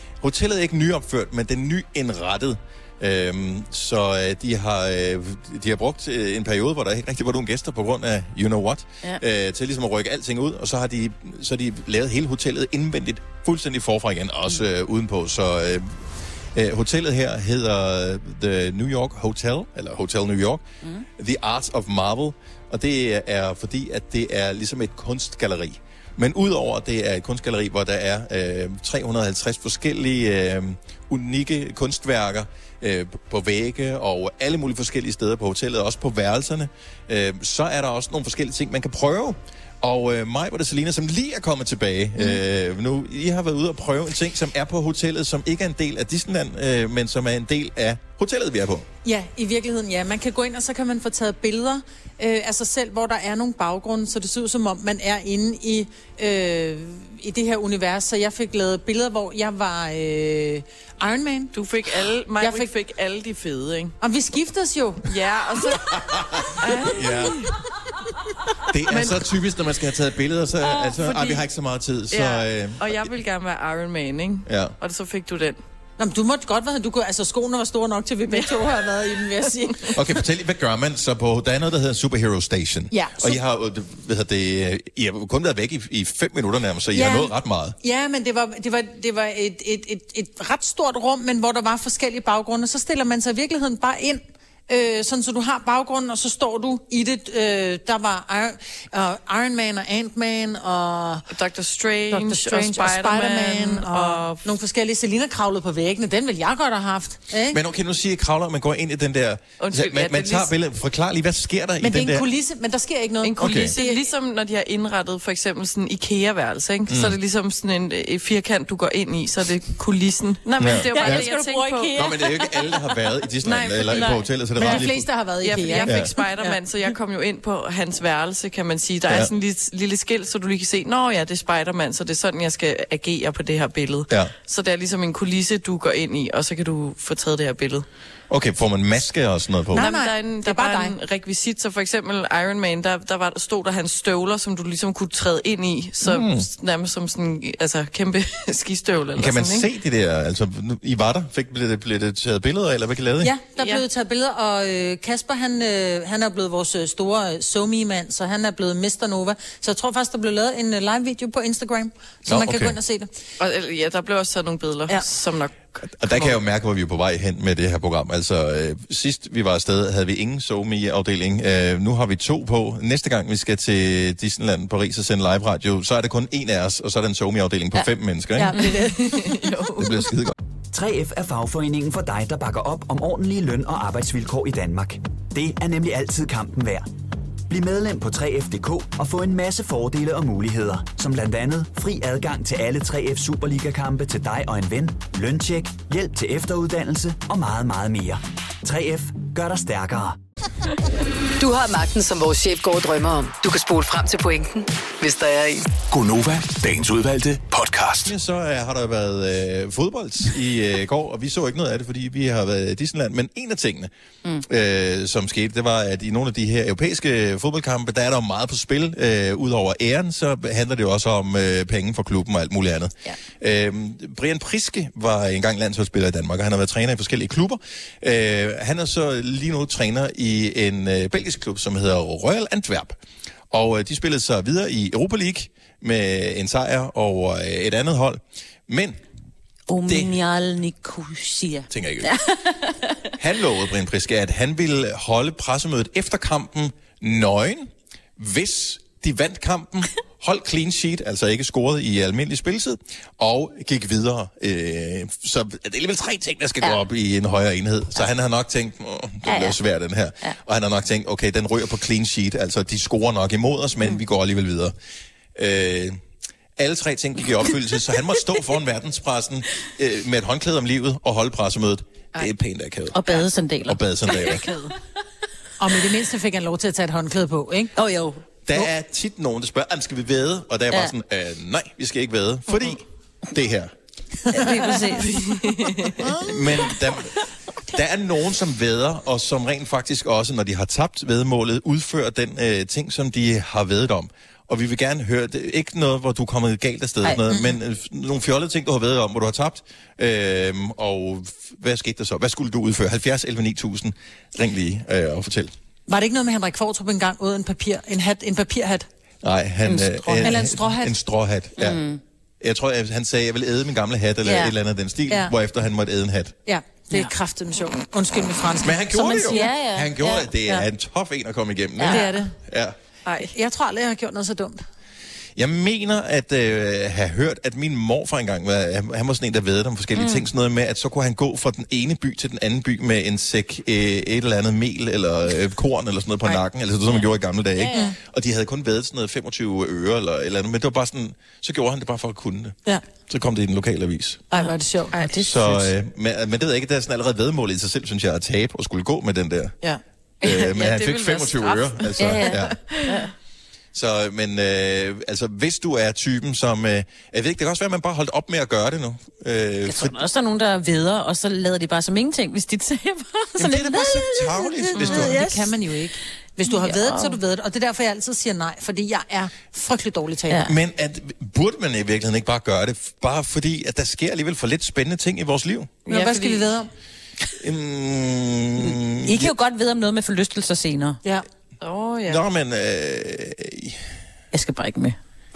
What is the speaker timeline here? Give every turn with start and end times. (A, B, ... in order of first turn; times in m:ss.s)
0:00.2-0:20.6 A
0:21.2-0:48.8 A
0:49.0-1:01.5 B
1:01.5-1:04.0 C
1:02.4-1:02.7 B
1:04.0-1:05.0 B
1:05.1-1:07.5 C
1:05.9-1:07.5 A
1:08.7-1:13.1 A
1:08.9-1:09.3 C
1:10.6-1:11.4 D
1:12.1-1:15.6 C
1:14.4-1:14.7 A
1:16.0-1:20.0 B
1:18.3-1:19.9 C
1:19.9-1:27.8 A
1:22.9-1:23.4 B
1:26.9-1:41.2 B
1:41.3-1:44.4 C
1:42.1-1:47.6 B
1:47.5-1:52.2 A
1:49.6-1:50.5 C
1:51.8-1:54.0 B
1:53.2-2:01.9 C
1:53.4-1:53.7 A
1:56.9-1:57.2 A
2:00.6-2:01.3 A
2:00.8-2:03.0 D
2:01.9-2:05.1 A
2:03.5-2:04.2 C
2:03.5-2:04.8 D
2:04.6-2:06.6 B
2:05.4-2:17.8 C
2:18.3-2:19.9 A
2:19.7-2:20.9 B
2:19.7-2:29.7 C
2:26.0-2:26.5 A
2:29.2-2:33.3 A
2:33.2-2:43.1 B
2:33.6-2:33.8 C
2:42.3-2:42.8 A
2:43.4-2:46.4 C
2:46.0-2:58.7 A
2:58.4-2:59.4 B
2:58.6-3:00.1 C
2:59.8-3:00.3 A
3:00.7-3:06.9 E
3:07.5-3:20.2 E
3:21.4-3:25.6 F
3:25.8-3:28.1 G
3:28.0-3:33.9 A
3:34.4-3:53.0 A
3:53.5-3:59.0 A
3:59.7-4:03.0 D
3:59.8-4:00.2 A
4:01.7-4:02.1 A
4:03.2-4:24.7 A
4:19.2-4:19.6 D
4:25.4-4:26.0 A
4:26.6-4:34.5 A
4:32.9-4:34.6 D
4:34.1-4:34.6 C
4:35.6-4:37.7 B
4:37.8-4:38.2 D
4:38.4-4:43.7 A
4:44.3-4:46.1 D
4:45.0-4:46.0 C
4:46.2-5:05.5 A
4:57.0-4:57.4 D
5:05.9-5:08.9 B
5:09.2-5:11.8 A
5:09.6-5:10.3 D
5:10.2-5:10.9 B
5:11.6-5:12.0 D
5:12.4-5:16.4 A
5:14.2-5:14.5 D
5:15.1-5:15.3 B
5:16.4-5:19.5 B
5:18.6-5:22.8 A
5:19.3-5:20.3 D
5:21.8-5:22.1 D
5:21.9-5:22.3 B
5:23.0-5:23.3 C
5:23.3-5:24.6 B
5:25.4-5:44.2 A
5:30.0-5:30.2 D
5:36.3-5:37.9 D
5:44.3-5:45.0 B
5:44.9-5:45.7 D
5:45.2-5:49.6 A
5:49.6-5:53.0 C
5:50.2-5:52.6 A
5:52.0-5:53.1 D
5:53.7-6:00.0 A
5:59.6-6:05.5 D
6:03.4-6:05.2 A
6:04.9-6:10.4 B
6:06.4-6:07.2 D
6:10.3-6:10.5 D
6:10.4-6:15.7 A
6:15.8-6:16.5 C
6:15.9-6:16.7 B
6:17.4-6:19.4 A
6:18.6-6:21.0 D
6:21.6-6:22.2 C
6:22.0-6:23.8 A
6:24.3-6:25.0 D